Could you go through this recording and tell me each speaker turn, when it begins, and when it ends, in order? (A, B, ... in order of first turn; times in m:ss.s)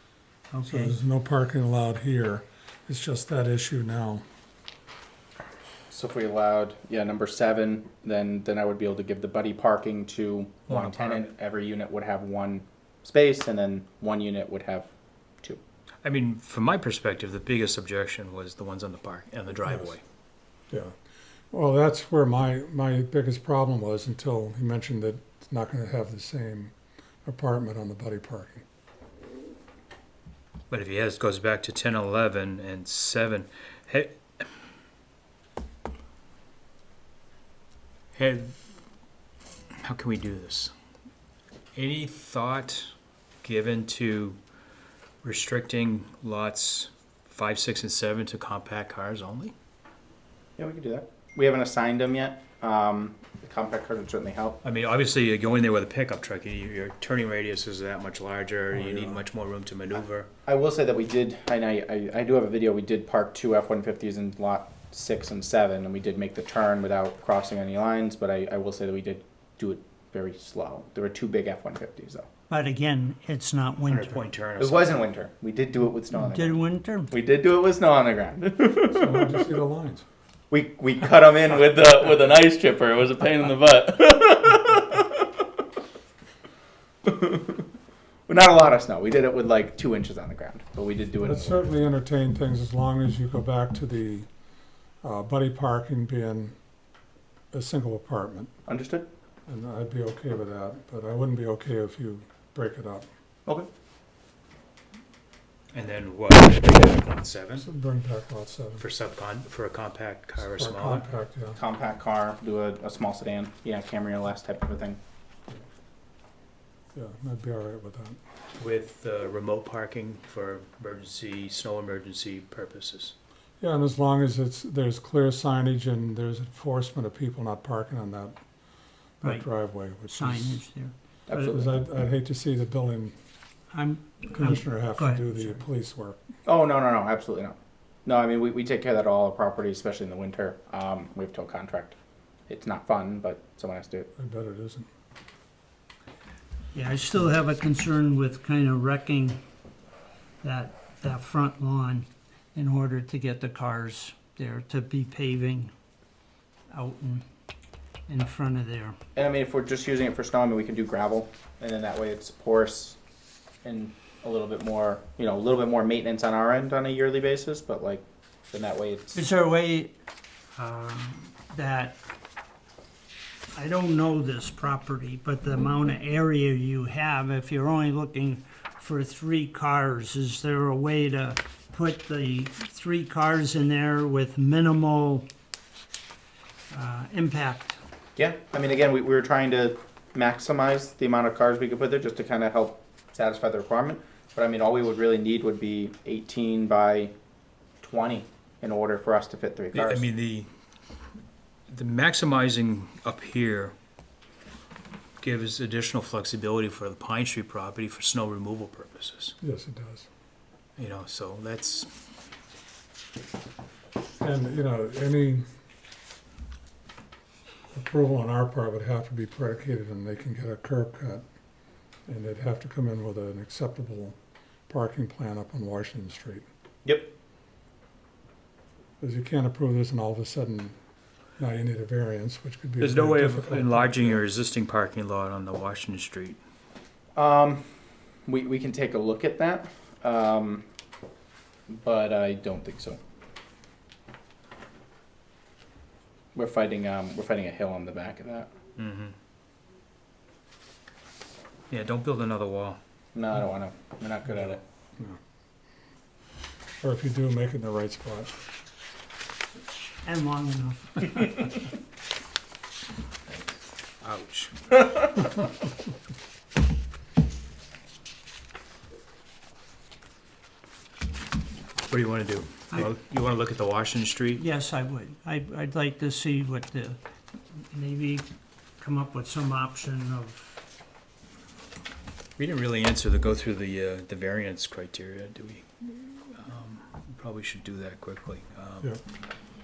0:00.5-0:01.0 A
0:00.6-0:04.2 B
0:05.9-0:14.9 C
0:10.7-0:11.3 D
0:16.0-0:20.0 D
0:21.5-0:26.7 B
0:27.2-0:28.6 B
0:30.7-0:34.5 D
0:38.1-0:38.6 D
0:39.8-0:40.7 D
0:41.8-0:42.9 D
0:43.4-0:44.4 D
0:45.2-0:49.5 D
0:50.6-0:54.6 C
0:54.6-1:00.3 D
0:58.7-0:59.2 B
1:00.5-1:12.3 C
1:12.5-1:14.3 A
1:13.9-1:15.0 D
1:14.6-1:16.6 C
1:16.2-1:17.1 A
1:17.1-1:19.4 C
1:18.9-1:20.0 B
1:20.5-1:25.3 C
1:27.0-1:27.6 C
1:28.3-1:31.6 C
1:31.2-1:34.3 B
1:35.0-1:36.6 B
1:37.5-1:38.5 B
1:38.7-1:39.1 C
1:39.5-1:43.1 B
1:45.7-1:47.6 D
1:47.6-1:48.8 B
1:48.8-1:51.1 D
1:50.4-1:51.6 B
1:51.6-1:55.0 C
1:56.9-1:58.2 B
1:58.6-2:03.2 D
2:03.6-2:08.4 B
2:09.2-2:11.6 A
2:09.2-2:10.6 B
2:11.3-2:11.7 C
2:11.4-2:13.1 B
2:13.7-2:15.6 A
2:14.3-2:16.2 B
2:16.5-2:22.0 C
2:22.5-2:24.1 C
2:24.2-2:24.9 B
2:26.7-2:29.4 A
2:30.4-2:35.7 A
2:36.7-2:37.2 A
2:38.1-2:39.0 A
2:39.2-2:43.0 C
2:43.6-2:49.2 C
2:49.1-2:49.9 A
2:50.6-2:52.0 A
2:53.5-3:05.3 A
3:06.7-3:07.8 A
3:08.2-3:17.1 C
3:17.8-3:20.1 C
3:19.7-3:20.5 D
3:21.7-3:23.8 D
3:25.2-3:29.4 D
3:29.4-3:30.1 B
3:30.8-3:31.9 D
3:34.2-3:35.4 B
3:37.7-3:41.2 B
3:42.1-3:44.2 B
3:44.7-3:46.5 B
3:46.8-3:47.1 C
3:49.0-3:50.8 B
3:51.4-3:54.2 B
3:52.8-3:56.4 D
3:57.2-3:57.6 C
3:58.3-4:00.6 C
4:01.7-4:03.0 C
4:06.4-4:08.5 C
4:08.8-4:09.2 D
4:11.7-4:12.8 D
4:13.1-4:14.6 C
4:16.8-4:18.3 B
4:20.0-4:21.5 A
4:24.0-4:24.8 D
4:31.9-4:34.4 D
4:34.4-4:37.0 A
4:37.7-4:38.3 A
4:38.8-4:40.6 A
4:42.4-4:48.9 D